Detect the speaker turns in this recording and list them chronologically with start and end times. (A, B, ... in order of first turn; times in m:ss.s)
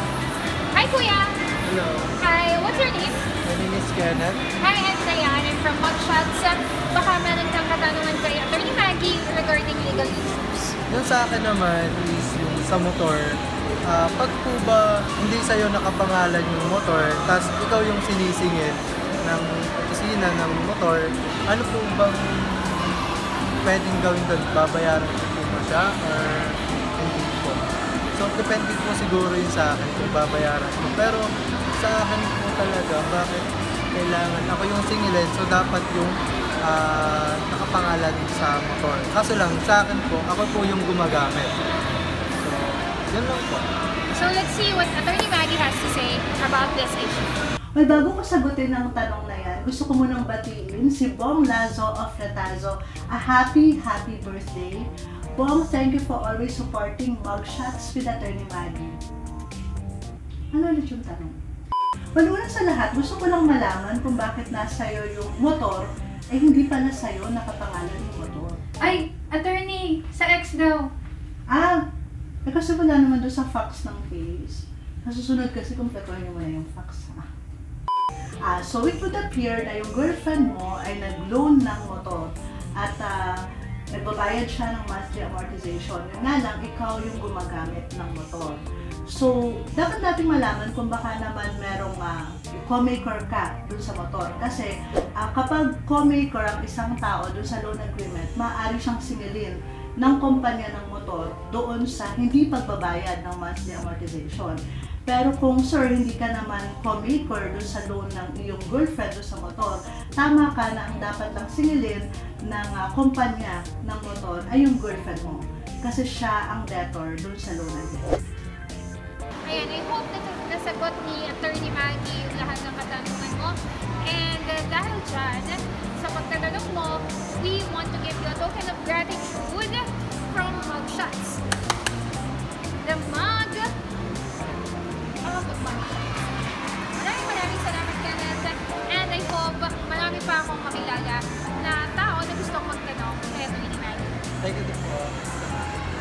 0:00.7-0:01.4 A
0:01.6-0:02.1 B
0:02.2-0:03.2 A
0:03.4-0:04.4 B
0:04.6-0:10.8 A
0:10.9-0:23.0 B
0:23.6-0:27.6 B
0:28.1-0:41.6 B
0:42.4-0:43.7 B
0:44.1-0:47.4 A
0:47.8-0:59.0 C
1:00.5-1:01.4 C
1:02.2-1:08.6 C
1:08.8-1:10.9 A
1:11.5-1:11.8 C
1:12.4-1:17.3 C
1:18.4-1:58.1 C
1:59.4-2:11.4 A
2:12.8-2:13.8 A
2:15.2-2:16.2 A
2:16.9-2:24.2 A
2:24.4-2:25.4 B